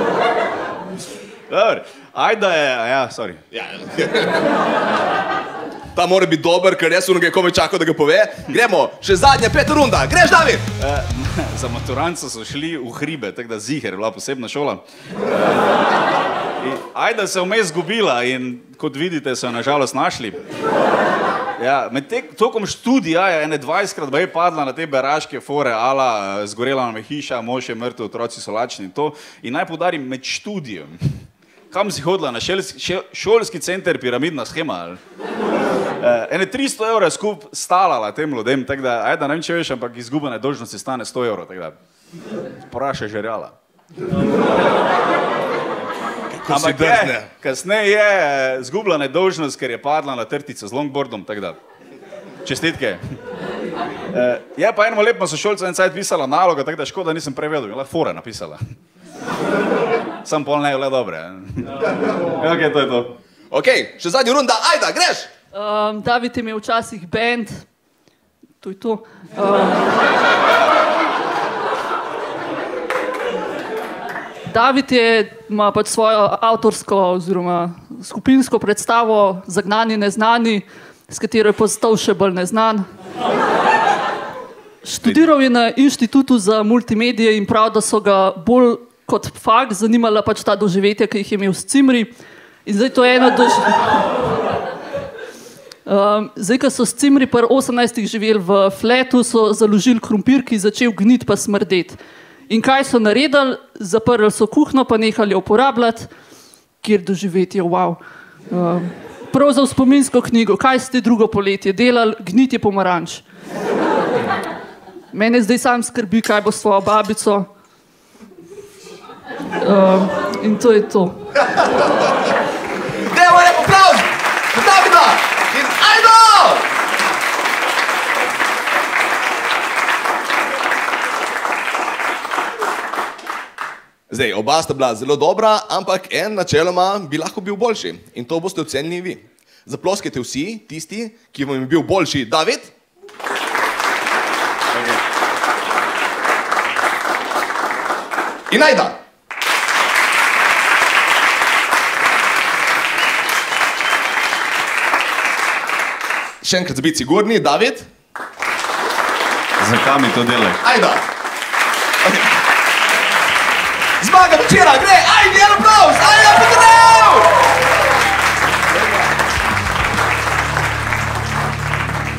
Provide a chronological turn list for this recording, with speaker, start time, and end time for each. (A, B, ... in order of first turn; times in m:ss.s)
0:01.5-0:03.4 A
0:03.5-0:04.4 B
0:05.9-0:10.6 B
0:10.8-0:15.8 A
0:16.6-0:20.4 A
0:21.6-0:31.0 A
0:31.7-0:35.0 A
0:36.0-0:41.8 A
0:42.7-0:43.5 A
0:46.3-0:47.3 B
0:46.5-0:51.6 A
0:52.4-0:53.0 A
0:54.1-0:58.6 A
1:00.2-1:03.1 A
1:03.5-1:05.3 B
1:05.5-1:07.6 C
1:08.6-1:09.9 C
1:14.4-1:22.8 C
1:24.8-1:32.1 C
1:32.6-1:34.1 C
1:35.8-1:42.0 C
1:42.5-1:46.1 C
1:46.8-1:48.0 C
1:48.5-1:53.2 C
1:55.1-1:57.5 C
1:59.6-2:01.2 C
2:03.0-2:06.6 B
2:14.1-2:22.7 B
2:24.7-2:25.0 A
2:28.5-2:29.0 B
2:36.4-2:37.8 B
2:39.6-2:40.6 A
2:40.6-2:41.0 B
2:44.0-2:47.3 B